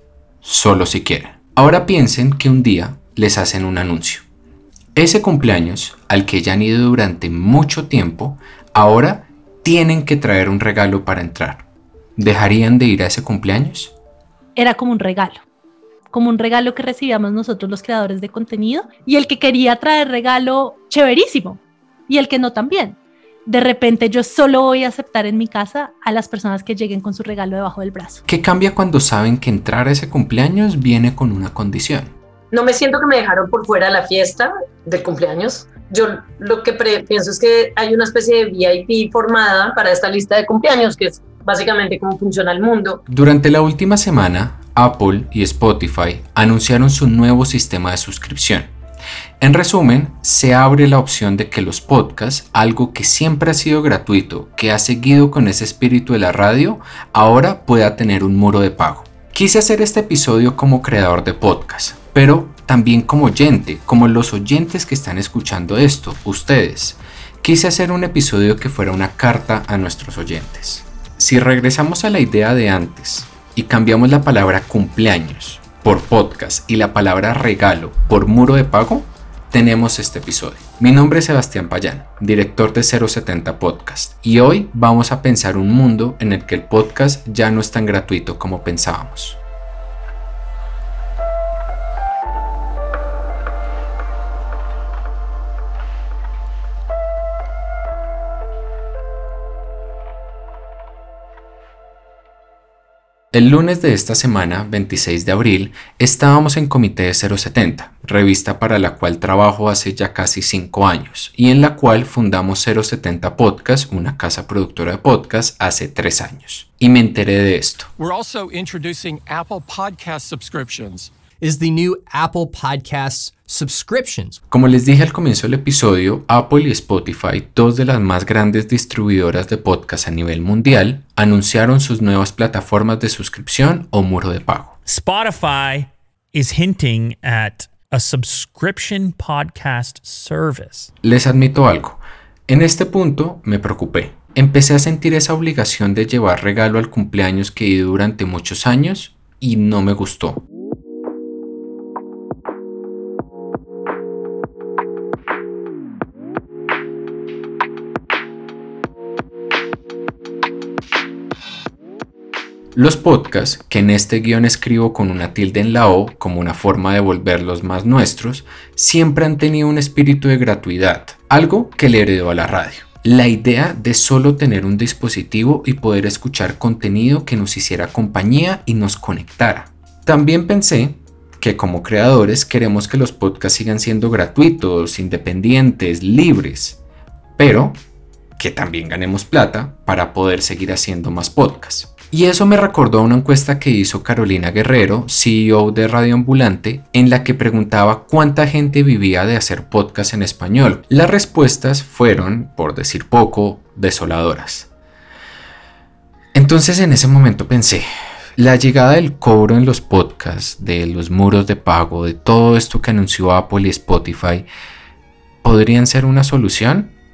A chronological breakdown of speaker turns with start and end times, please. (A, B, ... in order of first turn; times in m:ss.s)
0:00.4-0:04.2 A
0:05.0-0:11.6 A
0:12.2-0:13.9 A
0:14.6-0:15.4 B
0:16.1-0:28.2 B
0:28.3-0:32.1 A
0:32.5-0:43.0 C
0:43.1-0:48.7 A
0:49.4-1:29.4 A
1:43.3-1:57.9 A
1:58.0-2:01.1 D
2:01.4-2:04.4 E
2:04.5-2:14.8 A
2:14.8-2:20.9 F
2:21.0-2:30.4 A
2:42.7-3:06.8 A
3:07.4-3:07.8 A
3:08.4-3:24.7 A
3:26.3-3:34.5 A
3:35.4-3:36.9 A